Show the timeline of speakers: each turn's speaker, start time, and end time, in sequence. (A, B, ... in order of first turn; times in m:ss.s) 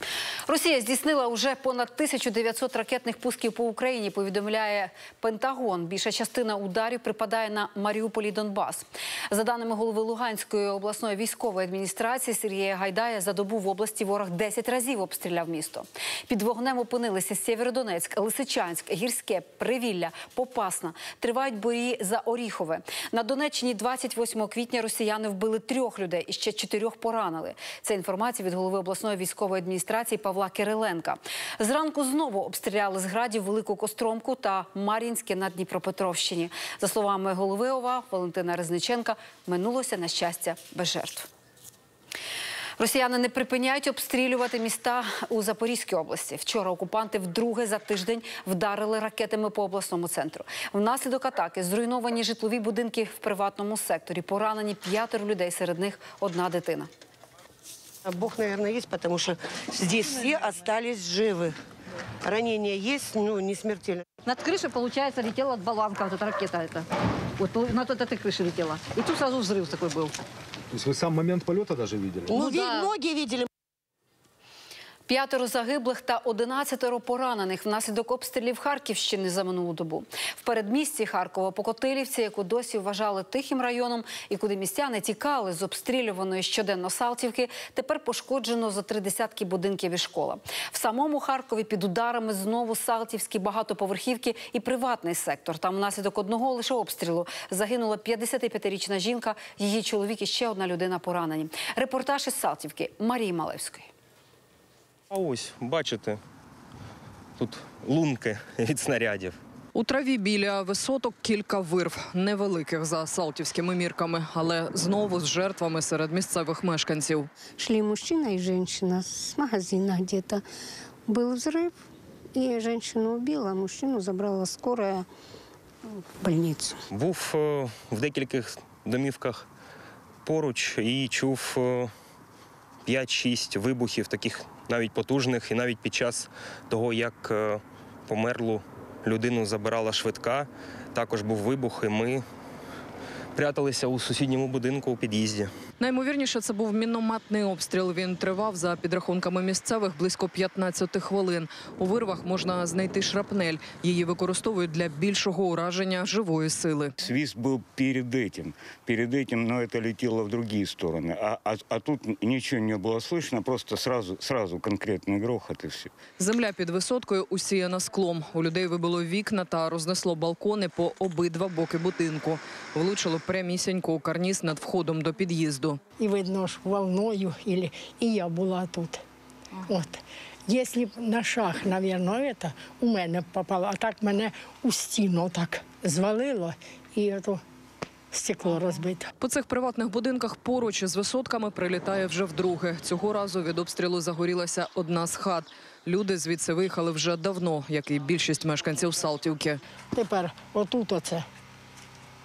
0:00.5-0:41.3 A
0:42.8-0:56.9 A
0:58.0-1:01.5 B
1:02.2-1:04.0 B
1:04.2-1:06.8 C
1:07.4-1:10.1 C
1:10.8-1:12.7 D
1:12.3-1:13.4 B
1:12.5-1:12.8 C
1:15.1-1:43.9 A
1:45.1-1:46.2 E
1:47.4-1:49.4 E
1:49.7-1:57.3 F
1:57.6-2:00.4 G
2:01.1-2:01.7 G
2:02.4-2:05.0 G
2:06.2-2:06.7 G
2:06.9-2:09.5 E
2:10.2-2:11.9 E
2:12.8-2:22.2 E
2:23.3-2:25.5 E
2:25.8-2:36.9 F
2:37.0-2:45.9 H
2:46.2-2:55.8 F
2:56.0-2:59.0 I
2:59.6-3:07.4 I
3:08.1-3:09.1 I
3:09.2-3:19.6 F
3:19.9-3:21.2 I